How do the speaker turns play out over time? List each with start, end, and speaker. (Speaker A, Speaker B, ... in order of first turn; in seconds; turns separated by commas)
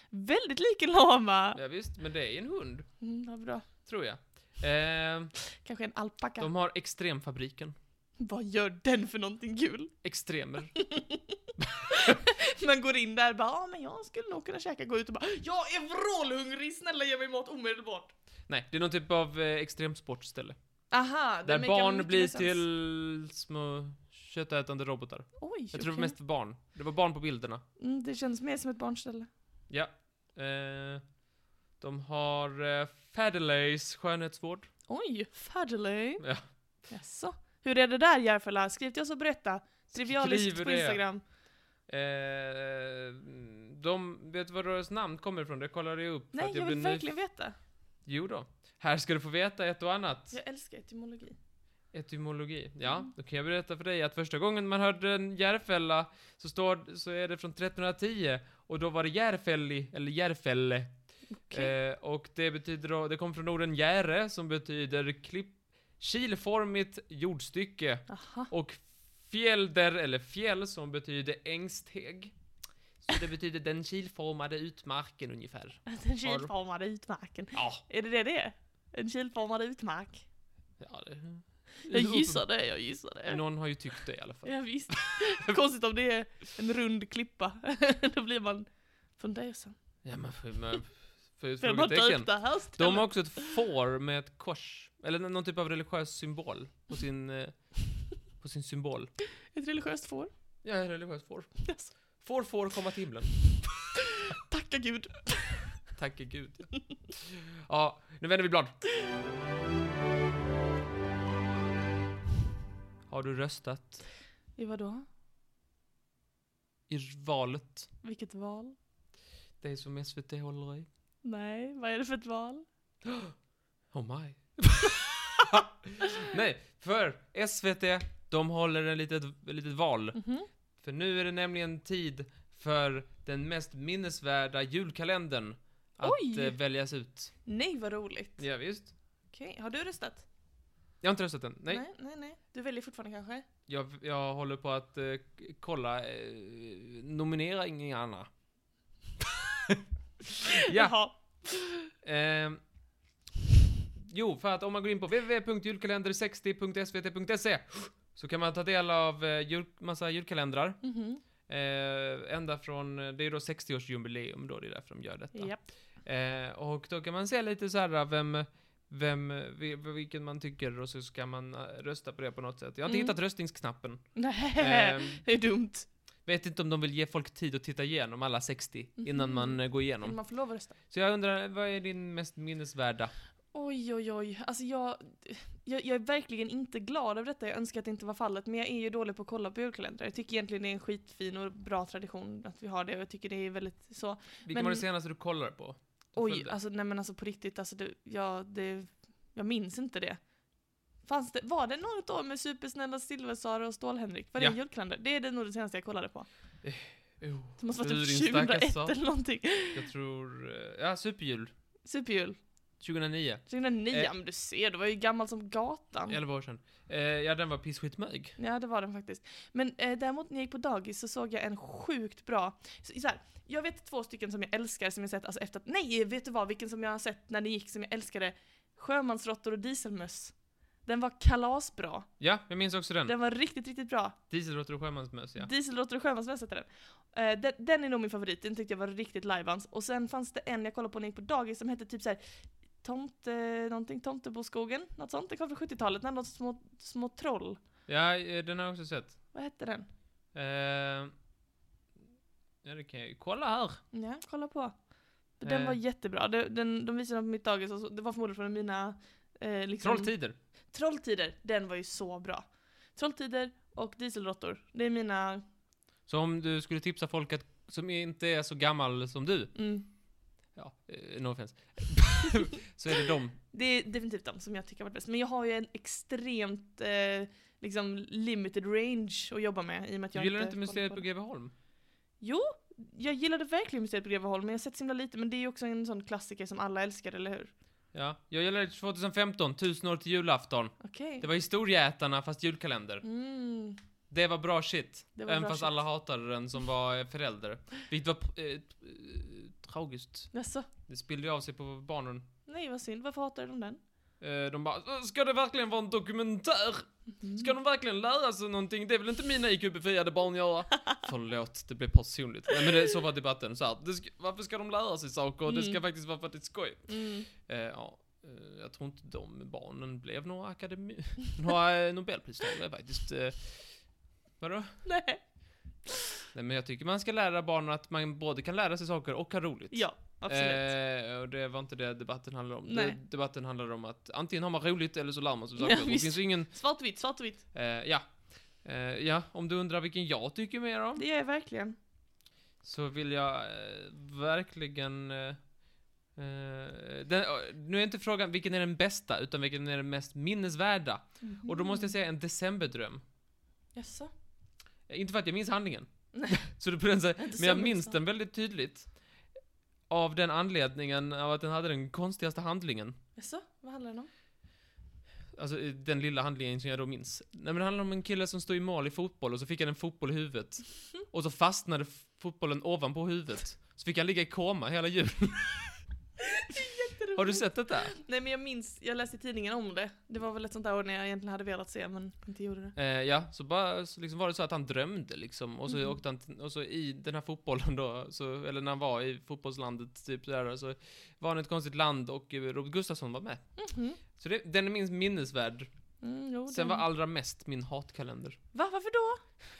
Speaker A: 0.1-1.6, Speaker B: 1.6-2.9, Speaker A: 3.0-3.7, Speaker B: 3.8-5.3, Speaker A: 5.5-6.5, Speaker B: 6.4-7.8, Speaker A: 8.2-9.9, Speaker B: 10.0-10.7, Speaker A: 10.8-18.1, Speaker B: 11.6-12.2, Speaker B: 18.5-20.6, Speaker A: 20.9-22.6, Speaker B: 21.4-27.6, Speaker A: 25.4-26.1, Speaker A: 27.8-29.3, Speaker B: 29.7-31.0, Speaker B: 31.8-34.7, Speaker A: 34.9-36.2, Speaker A: 36.9-41.2, Speaker B: 40.0-41.0, Speaker B: 41.9-47.1, Speaker A: 46.3-47.6, Speaker B: 48.0-50.4, Speaker A: 50.3-51.4, Speaker B: 51.9-60.9, Speaker A: 61.4-61.7, Speaker B: 61.5-72.3, Speaker A: 68.1-68.5, Speaker B: 73.0-76.5, Speaker A: 75.9-80.2, Speaker B: 77.5-77.8, Speaker B: 80.8-82.4, Speaker A: 81.8-83.4, Speaker B: 83.2-85.5, Speaker A: 84.4-89.8, Speaker B: 90.0-99.1, Speaker A: 91.6-93.5, Speaker A: 99.5-100.3, Speaker B: 100.6-103.7, Speaker A: 101.6-101.9, Speaker A: 104.3-105.9, Speaker B: 105.9-108.8, Speaker B: 113.1-114.0, Speaker A: 114.6-115.0, Speaker B: 116.9-117.9, Speaker A: 118.0-118.8, Speaker B: 119.6-120.9, Speaker A: 121.2-122.7, Speaker B: 123.0-123.3, Speaker B: 123.9-130.2, Speaker A: 130.1-130.5, Speaker B: 130.8-137.3, Speaker A: 136.0-136.6, Speaker A: 137.4-138.4, Speaker B: 138.4-138.9, Speaker A: 139.3-140.3, Speaker B: 141.0-141.8, Speaker A: 141.7-143.4, Speaker B: 143.7-148.3, Speaker B: 149.2-151.0, Speaker A: 150.5-151.9, Speaker B: 152.0-152.6, Speaker B: 154.0-160.8, Speaker A: 160.8-161.2, Speaker B: 161.5-175.3, Speaker A: 165.3-165.6, Speaker A: 172.8-173.1, Speaker A: 174.1-175.9, Speaker B: 176.2-180.2, Speaker A: 179.0-180.8, Speaker B: 180.9-183.1, Speaker A: 183.5-194.9, Speaker B: 194.4-196.6, Speaker A: 196.2-200.2, Speaker A: 201.0-206.3, Speaker B: 206.6-209.0, Speaker A: 207.6-209.8, Speaker B: 209.7-211.5, Speaker A: 211.8-212.4, Speaker B: 212.8-214.1, Speaker A: 213.5-216.2, Speaker B: 216.1-218.4, Speaker A: 218.4-232.1, Speaker B: 232.2-233.1, Speaker A: 233.1-234.2, Speaker B: 234.3-235.5, Speaker A: 235.4-247.6, Speaker B: 247.9-249.2, Speaker A: 249.3-249.9, Speaker B: 250.3-251.1, Speaker B: 252.6-253.8, Speaker A: 253.9-254.8, Speaker A: 255.4-260.1, Speaker B: 255.4-255.8, Speaker B: 259.8-260.4, Speaker A: 260.7-265.4, Speaker B: 266.1-269.6, Speaker A: 269.6-269.9, Speaker B: 270.6-273.4, Speaker A: 273.5-281.1, Speaker B: 280.1-281.5, Speaker A: 282.2-287.5, Speaker B: 287.9-293.0, Speaker A: 290.8-291.3, Speaker A: 293.0-293.8, Speaker B: 294.1-300.3, Speaker A: 295.1-295.8, Speaker A: 300.3-300.7, Speaker B: 300.9-302.3, Speaker A: 302.5-303.8, Speaker B: 304.2-323.9, Speaker A: 307.2-307.5, Speaker A: 315.4-315.8, Speaker A: 316.9-317.3, Speaker B: 324.4-324.8, Speaker A: 324.9-325.2, Speaker A: 325.8-326.0, Speaker B: 326.3-336.5, Speaker A: 329.7-330.7, Speaker A: 332.6-333.0, Speaker A: 335.6-337.4, Speaker B: 337.5-341.0, Speaker A: 340.9-341.8, Speaker B: 342.6-345.5, Speaker B: 346.1-353.0, Speaker A: 351.2-351.9, Speaker A: 353.8-354.1, Speaker B: 354.9-358.9, Speaker A: 356.1-356.5, Speaker A: 357.2-358.0, Speaker B: 359.9-362.9, Speaker A: 363.1-364.1, Speaker B: 365.3-375.8, Speaker A: 376.2-382.8, Speaker B: 377.1-377.9, Speaker B: 382.8-393.4, Speaker A: 385.7-385.9, Speaker A: 393.6-394.0, Speaker B: 394.1-395.7, Speaker A: 396.0-396.9, Speaker B: 396.5-398.4, Speaker A: 398.5-399.2